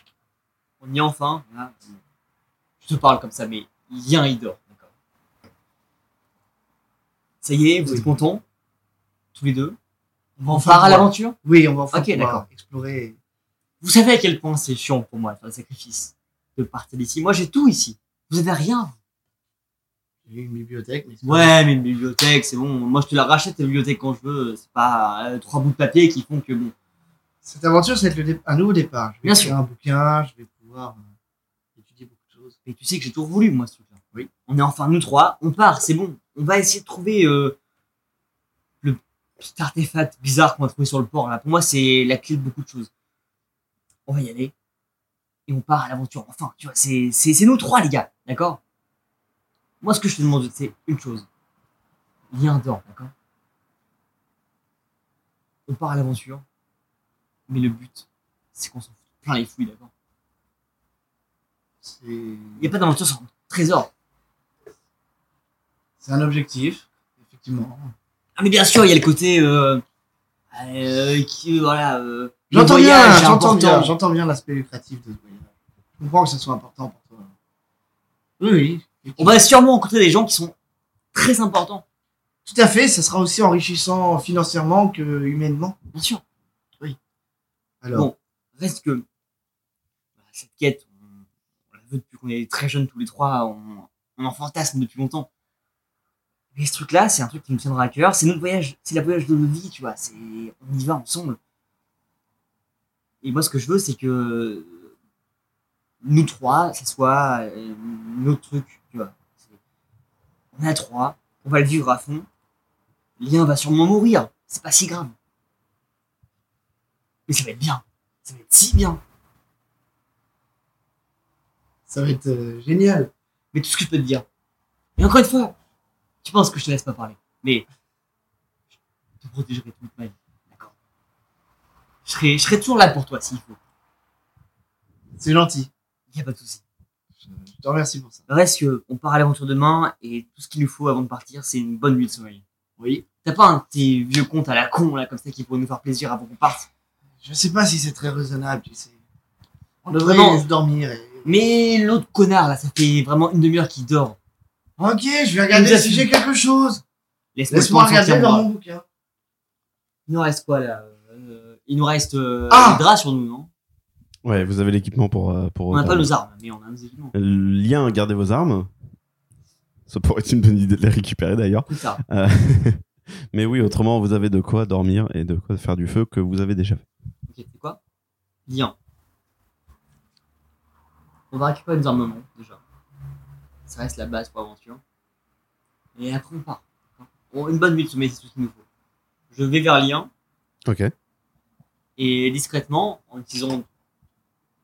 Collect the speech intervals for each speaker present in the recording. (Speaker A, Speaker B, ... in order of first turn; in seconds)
Speaker A: 0.8-2.0, 2.8-4.9, 7.4-8.4, 9.3-9.8, 10.5-11.3, 11.9-12.4, 13.8-18.9, 21.2-26.7, 29.2-29.5, 32.6-37.6, 38.8-42.9, 44.1-44.5, 45.5-48.6, 49.8-51.3, 52.3-53.1, 55.7-56.4, 57.5-59.9, 62.6-63.9, 68.3-69.8, 70.5-73.9, 79.2-80.5, 81.1-81.8, 85.9-86.2, 87.9-89.0, 90.3-91.2, 91.8-95.3, 96.5-101.4, 103.2-104.9, 106.0-109.5, 110.5-112.3, 113.2-115.1, 117.3-119.0, 123.5-124.2, 125.0-125.5, 126.2-127.6, 129.2-130.7, 132.1-133.6, 136.1-136.6, 138.3-142.4, 143.2-146.7, 149.9-150.4, 151.2-154.2, 155.5-156.0, 157.3-158.4, 160.1-163.5, 165.7-167.1, 171.7-172.0, 177.3-177.8, 178.5-178.7, 181.3-182.6, 183.7-184.8, 186.0-188.6, 189.3-190.1, 192.0-193.7
Speaker B: 10.4-13.2, 20.3-21.5, 27.4-31.1, 31.8-32.5, 61.8-62.7, 66.0-67.9, 72.5-77.3, 78.4-79.4, 82.4-85.7, 87.8-88.1, 121.9-123.1, 135.2-135.7, 137.2-138.2, 142.8-143.0, 147.2-148.9, 149.8-151.3, 154.8-156.8, 157.5-158.8, 162.5-162.8
Speaker C: 164.2-166.1, 167.1-168.7, 169.9-172.8, 173.3-176.8, 190.7-190.9